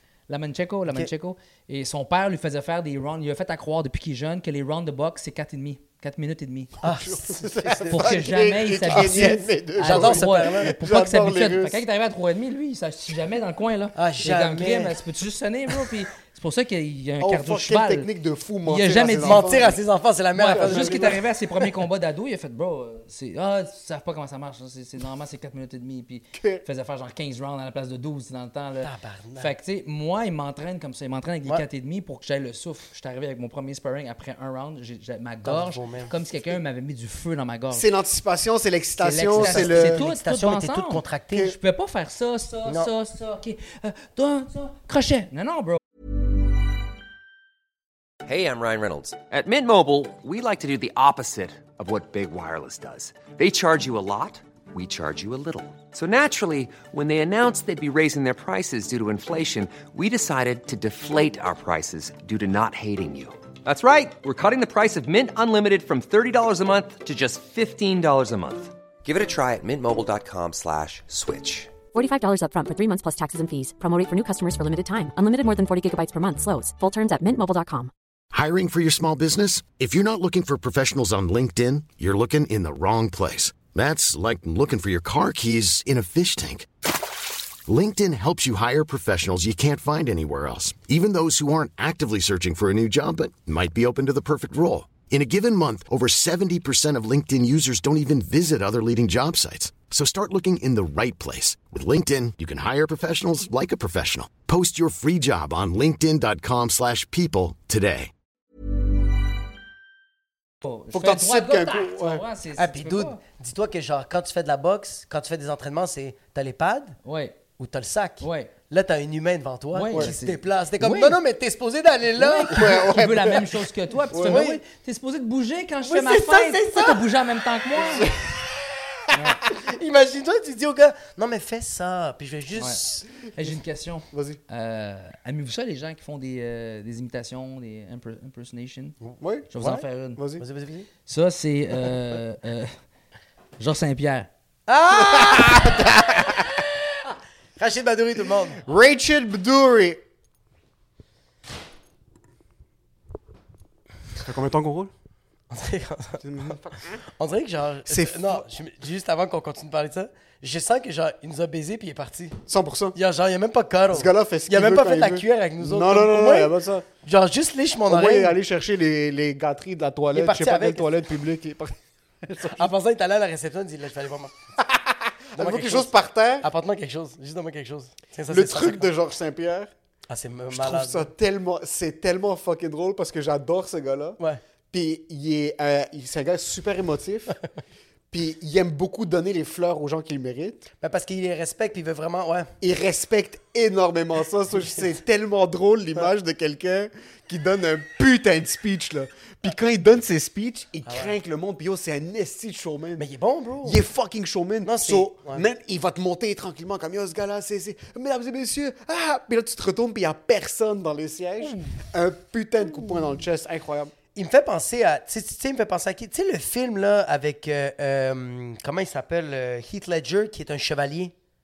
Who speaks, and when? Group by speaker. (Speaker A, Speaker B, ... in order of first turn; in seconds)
Speaker A: 0.3-6.8, 7.9-18.1, 18.6-19.8, 20.3-37.9, 39.0-45.8, 110.6-113.2, 117.0-117.4, 118.2-118.5, 119.7-121.2, 122.2-128.1, 129.1-129.4, 132.6-139.0, 139.5-140.2, 141.1-142.7, 143.6-144.3
Speaker B: 6.8-8.0, 8.9-10.7, 13.9-15.0, 19.2-21.2, 28.8-29.5, 35.4-36.1, 39.4-41.5, 112.6-117.0, 117.6-122.8, 124.2-124.6, 125.8-127.0, 129.5-133.0, 140.4-140.9, 144.7-145.8, 147.6-148.6, 155.5-156.6, 157.2-162.4, 162.9-168.4, 170.1-170.9, 172.6-174.3, 175.4-178.9, 180.1-181.1, 190.8-192.5, 200.8-201.1, 203.0-203.8, 204.6-205.4, 214.1-221.1
Speaker C: 6.8-11.8, 17.2-19.7, 20.5-21.2, 26.3-26.6, 37.7-40.0, 110.9-112.2, 122.5-124.5, 134.1-134.4, 139.2-139.5, 140.2-140.4, 144.9-146.5, 148.6-150.0, 154.2-154.9, 156.2-157.0, 157.9-158.4, 162.5-162.9, 163.9-166.8, 167.9-172.7, 174.6-176.5, 178.3-179.7, 180.5-184.2, 184.7-187.4, 188.1-190.7, 192.6-203.0, 203.6-213.9
Speaker D: 48.2-71.7
Speaker E: 71.9-77.9
Speaker F: 78.3-86.7, 87.7-108.1